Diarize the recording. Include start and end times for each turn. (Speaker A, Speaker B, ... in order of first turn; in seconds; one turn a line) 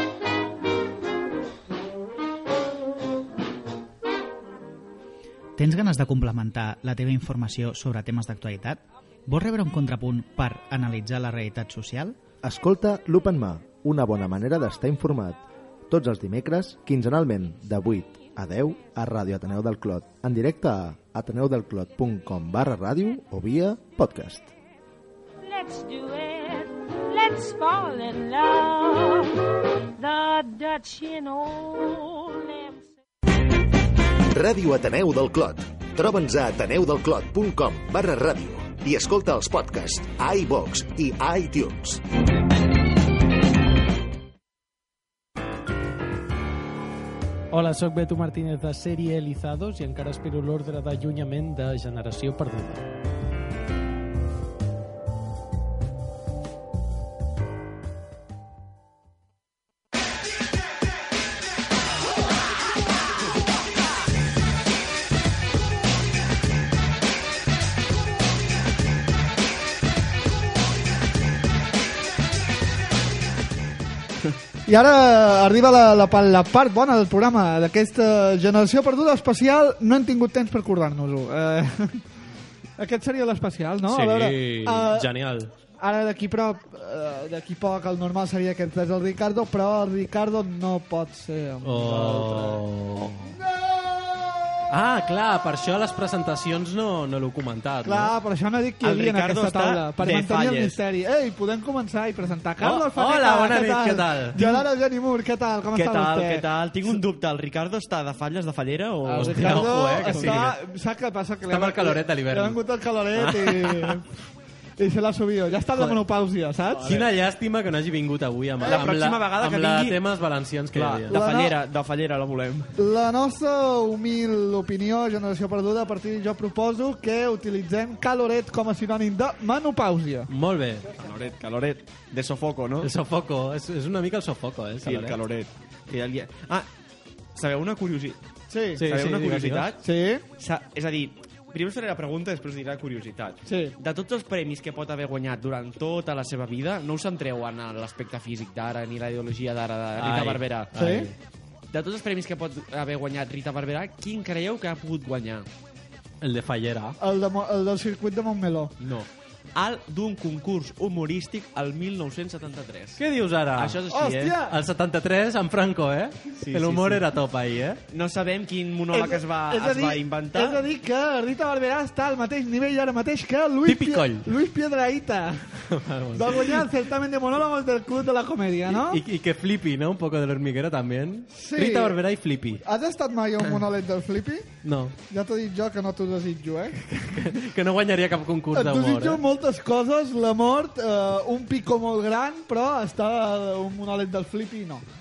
Speaker A: 5.6-12.2
Speaker B: 12.3-24.5
Speaker C: 25.4-29.4
Speaker C: 30.0-32.8
Speaker D: 34.3-42.0
Speaker E: 47.5-52.9
Speaker F: 74.7-82.0
Speaker F: 82.8-85.1
Speaker G: 83.9-85.5
Speaker F: 85.8-92.6
Speaker G: 91.6-93.3
Speaker F: 93.3-94.6
Speaker G: 94.7-98.1
Speaker F: 97.8-106.5
Speaker H: 98.8-100.8
Speaker G: 102.6-104.4
Speaker H: 104.3-104.6
Speaker H: 105.7-110.4
Speaker G: 109.0-110.5
Speaker F: 109.2-114.1
Speaker G: 111.5-112.6
Speaker H: 113.2-113.5
Speaker F: 114.8-116.9
Speaker H: 116.7-117.1
Speaker G: 116.8-121.2
Speaker F: 118.6-118.9
Speaker H: 118.6-120.0
Speaker H: 120.7-122.7
Speaker F: 121.1-121.5
Speaker F: 122.8-130.3
Speaker G: 130.3-130.9
Speaker H: 131.0-132.9
Speaker G: 132.8-135.2
Speaker H: 134.8-136.7
Speaker H: 137.3-138.2
Speaker F: 138.5-138.8
Speaker G: 138.8-139.8
Speaker H: 138.8-139.8
Speaker F: 139.8-140.2
Speaker H: 140.4-150.7
Speaker F: 143.4-143.7
Speaker G: 150.0-151.1
Speaker F: 150.8-151.1
Speaker H: 151.7-155.5
Speaker G: 156.2-157.0
Speaker F: 157.0-158.7
Speaker H: 158.8-163.0
Speaker G: 163.0-163.8
Speaker H: 163.5-164.3
Speaker F: 163.9-164.5
Speaker G: 164.5-167.8
Speaker H: 166.4-167.0
Speaker H: 167.9-170.6
Speaker F: 168.9-175.6
Speaker G: 173.7-174.3
Speaker G: 175.7-176.7
Speaker F: 176.2-179.0
Speaker G: 178.7-182.6
Speaker F: 181.3-182.0
Speaker F: 182.6-184.5
Speaker G: 184.6-184.9
Speaker F: 185.1-186.8
Speaker G: 186.9-189.2
Speaker F: 188.5-194.8